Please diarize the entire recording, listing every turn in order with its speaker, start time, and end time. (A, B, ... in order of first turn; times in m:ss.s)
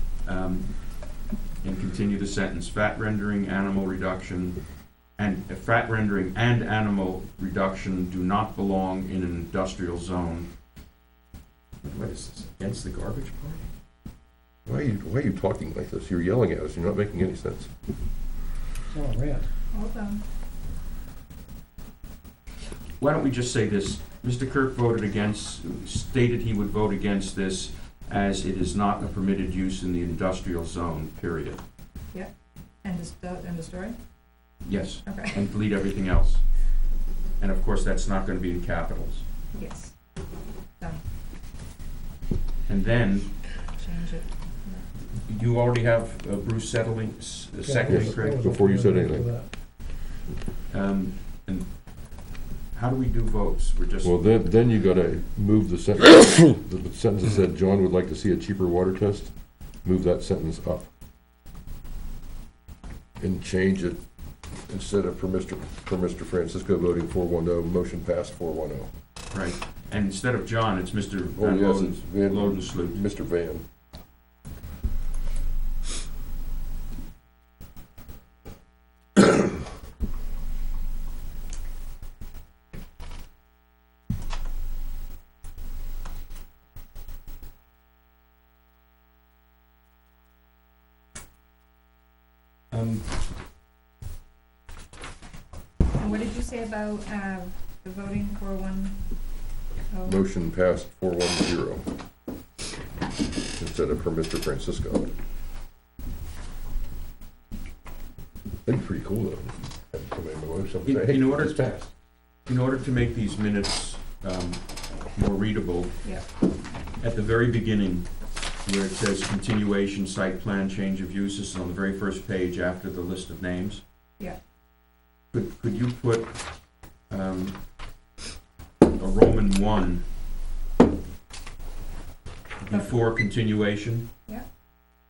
0:00.2-0:10.5 A
0:11.8-0:13.6 A
0:14.7-0:17.7 B
0:18.9-0:19.5 C
0:19.7-0:20.2 D
0:23.0-0:31.6 A
0:32.1-0:34.0 D
0:34.6-0:36.5 A
0:35.1-0:35.4 D
0:37.4-0:39.2 A
0:39.6-0:40.0 D
0:40.8-0:41.0 D
0:42.7-0:43.4 A
0:43.7-0:44.9 D
0:45.1-0:48.5 A
0:47.6-0:49.5 C
0:47.9-0:49.4 B
0:50.7-0:52.2 A
0:52.7-0:54.3 A
0:54.0-0:59.3 B
0:59.8-1:00.9 B
1:03.2-1:04.0 B
1:04.7-1:08.9 B
1:09.3-1:13.0 A
1:11.4-1:13.6 B
1:32.7-1:33.0 A
1:36.0-1:39.0 D
1:39.5-1:40.2 D
1:40.1-1:41.9 B
1:43.6-1:45.1 B
1:48.6-1:51.9 B
1:50.9-1:51.7 A
1:52.5-1:56.2 A
1:57.0-2:03.8 A
2:05.3-2:06.6 A
2:07.1-2:07.6 A
2:09.0-2:10.0 A
2:12.6-2:14.1 A